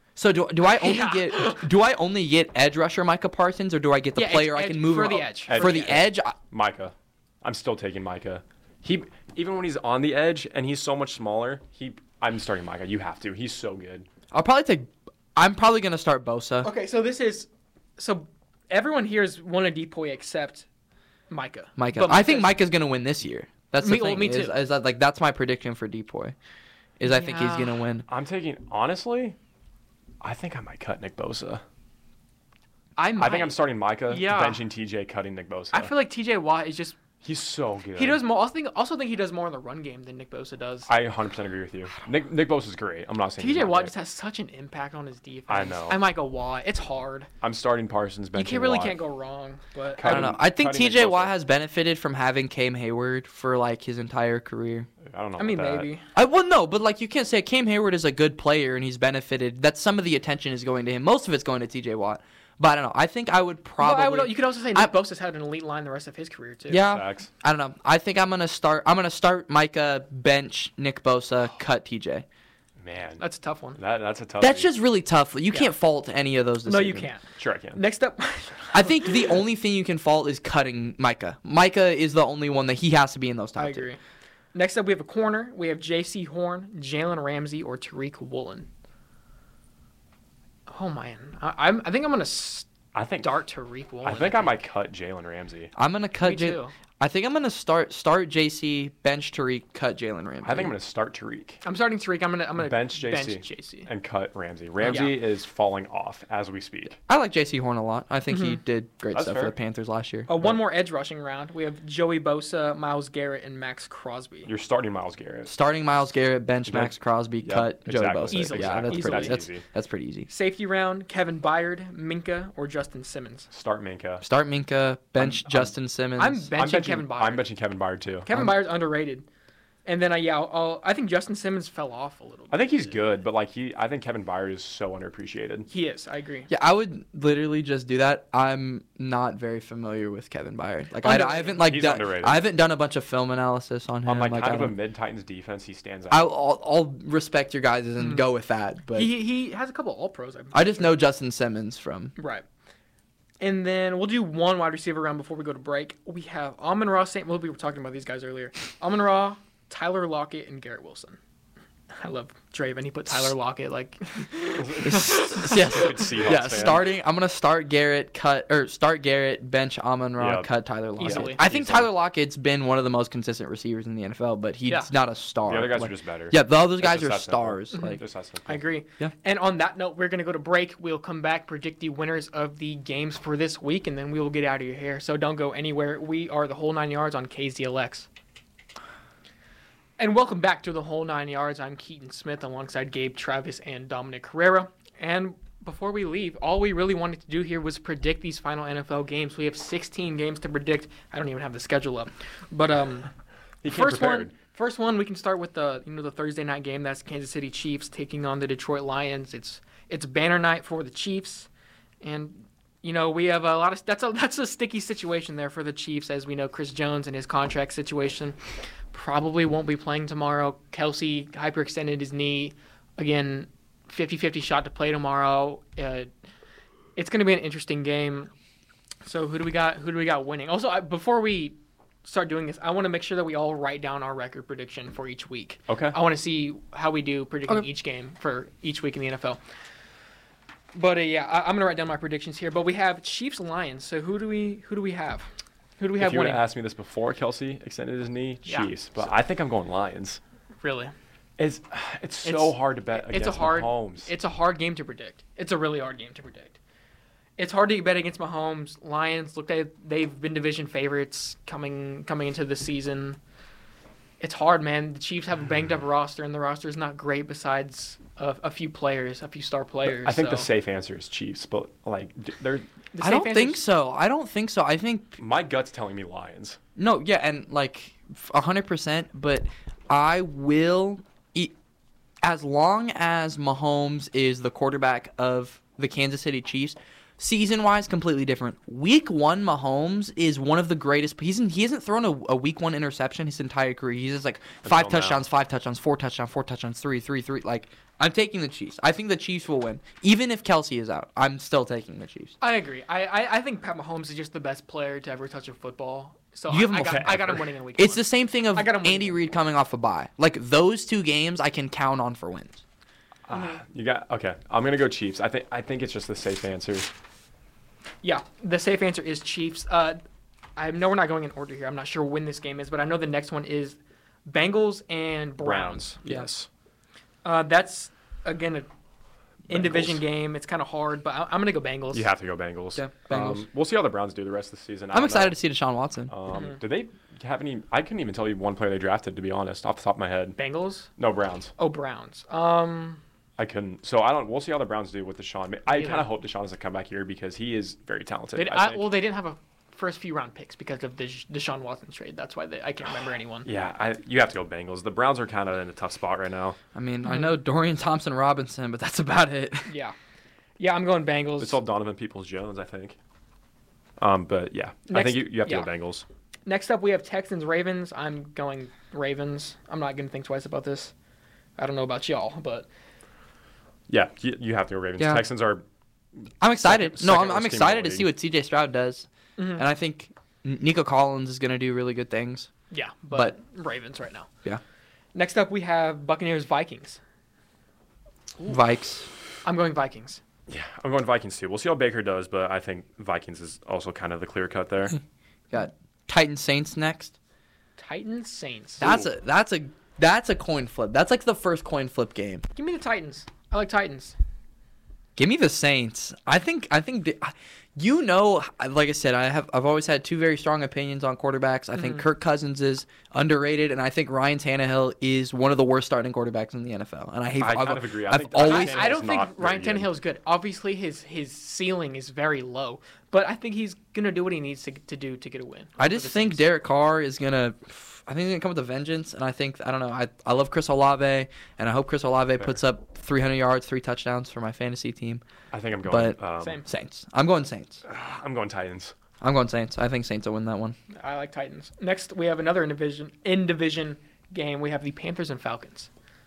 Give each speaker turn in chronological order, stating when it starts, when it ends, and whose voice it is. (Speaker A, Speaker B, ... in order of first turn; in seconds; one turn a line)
Speaker A: 0.2-6.4
Speaker B: 0.7-1.6
Speaker B: 4.2-6.0
Speaker C: 5.5-14.1
Speaker A: 14.3-16.7
Speaker B: 16.6-20.6
Speaker B: 21.3-22.6
Speaker A: 21.8-26.4
Speaker B: 23.8-24.6
Speaker A: 27.0-28.1
Speaker B: 27.0-27.8
Speaker C: 28.1-29.4
Speaker C: 30.2-31.6
Speaker B: 33.0-34.6
Speaker C: 33.2-35.9
Speaker B: 35.7-37.0
Speaker C: 37.2-38.2
Speaker B: 38.0-40.9
Speaker C: 40.9-43.9
Speaker B: 43.4-47.3
Speaker C: 45.5-46.0
Speaker C: 47.4-49.0
Speaker B: 48.4-50.3
Speaker C: 50.0-51.4
Speaker A: 50.0-54.9
Speaker C: 55.0-55.9
Speaker B: 55.4-56.1
Speaker A: 56.1-64.9
Speaker B: 63.8-66.9
Speaker A: 66.7-72.2
Speaker C: 66.9-67.3
Speaker C: 72.8-73.2
Speaker B: 73.2-73.8
Speaker C: 73.8-74.7
Speaker A: 74.4-77.1
Speaker B: 76.7-79.4
Speaker C: 77.4-77.8
Speaker A: 78.7-83.9
Speaker B: 83.6-84.0
Speaker B: 84.5-88.7
Speaker B: 90.7-92.7
Speaker C: 92.9-93.4
Speaker B: 93.2-94.5
Speaker C: 94.0-95.7
Speaker A: 95.8-100.7
Speaker B: 96.2-96.7
Speaker C: 100.4-101.6
Speaker B: 101.6-103.9
Speaker C: 102.6-107.0
Speaker B: 104.8-105.1
Speaker A: 107.1-110.3
Speaker B: 108.3-108.6
Speaker C: 109.1-109.5
Speaker B: 110.3-114.5
Speaker C: 114.5-115.5
Speaker A: 115.5-120.3
Speaker C: 116.7-119.7
Speaker B: 118.3-119.5
Speaker B: 120.3-123.5
Speaker C: 123.5-124.2
Speaker A: 124.2-126.5
Speaker C: 125.2-125.7
Speaker B: 126.2-127.5
Speaker C: 126.6-128.3
Speaker B: 128.2-129.3
Speaker B: 129.8-132.9
Speaker C: 132.5-135.7
Speaker B: 135.7-136.5
Speaker A: 136.5-144.8
Speaker B: 141.0-141.6
Speaker C: 141.6-142.4
Speaker C: 144.1-146.3
Speaker A: 146.1-149.2
Speaker B: 148.0-148.3
Speaker B: 148.9-151.0
Speaker A: 150.5-152.1
Speaker B: 152.2-152.4
Speaker B: 153.4-161.2
Speaker B: 161.9-165.7
Speaker C: 164.6-166.9
Speaker A: 164.8-178.0
Speaker C: 170.2-171.9
Speaker B: 171.0-171.4
Speaker C: 175.5-178.6
Speaker B: 177.7-188.1
Speaker B: 190.0-203.1
Speaker C: 203.6-204.3
Speaker B: 203.7-211.5
Speaker B: 212.0-218.4
Speaker B: 218.9-226.1
Speaker B: 227.0-228.3
Speaker B: 229.1-239.4
Speaker C: 235.7-236.0
Speaker B: 240.7-246.4
Speaker C: 246.0-250.2
Speaker B: 248.5-248.7
Speaker B: 250.6-250.9
Speaker C: 251.4-254.1
Speaker B: 252.2-256.6
Speaker B: 257.4-263.2
Speaker B: 264.2-270.5
Speaker C: 269.9-272.7
Speaker B: 272.9-273.6
Speaker A: 273.0-275.2
Speaker C: 275.2-276.6
Speaker A: 276.8-281.5
Speaker A: 282.2-302.4
Speaker C: 294.6-295.2
Speaker B: 302.4-309.2
Speaker A: 306.5-312.6
Speaker C: 306.8-307.4
Speaker C: 313.3-316.9
Speaker B: 313.3-313.6
Speaker B: 318.0-320.0
Speaker B: 320.6-326.0
Speaker C: 325.4-326.5
Speaker B: 327.2-328.7
Speaker C: 329.5-330.0
Speaker B: 329.5-332.1
Speaker C: 331.9-335.4
Speaker A: 332.8-333.4
Speaker A: 334.9-336.1
Speaker C: 336.1-340.4
Speaker B: 336.3-336.6
Speaker B: 340.4-340.9
Speaker C: 341.0-341.5
Speaker B: 341.6-343.0
Speaker C: 343.4-348.9
Speaker B: 345.7-346.1
Speaker B: 348.4-353.5
Speaker C: 353.4-356.6
Speaker A: 356.7-359.7
Speaker B: 357.1-357.4
Speaker B: 359.7-359.9
Speaker B: 360.6-361.6
Speaker C: 361.4-363.0
Speaker C: 364.0-366.1
Speaker B: 364.9-365.7
Speaker B: 366.5-370.9
Speaker B: 371.6-372.7
Speaker C: 373.9-375.7
Speaker A: 375.0-375.3
Speaker A: 376.4-382.5
Speaker C: 376.6-378.1
Speaker B: 379.4-379.6
Speaker B: 382.7-384.3
Speaker B: 385.1-387.0
Speaker A: 388.5-389.1
Speaker B: 389.4-390.2
Speaker C: 390.5-395.0
Speaker A: 395.5-397.2
Speaker B: 397.8-398.9
Speaker A: 398.8-402.4
Speaker C: 398.8-399.1
Speaker B: 402.6-404.1
Speaker A: 405.2-418.9
Speaker B: 411.7-412.1
Speaker C: 417.4-419.9
Speaker B: 418.4-426.5
Speaker A: 425.8-435.2
Speaker C: 435.5-436.6
Speaker A: 435.8-437.8
Speaker B: 436.4-436.7
Speaker C: 437.9-438.9
Speaker A: 439.2-440.8
Speaker B: 441.0-445.9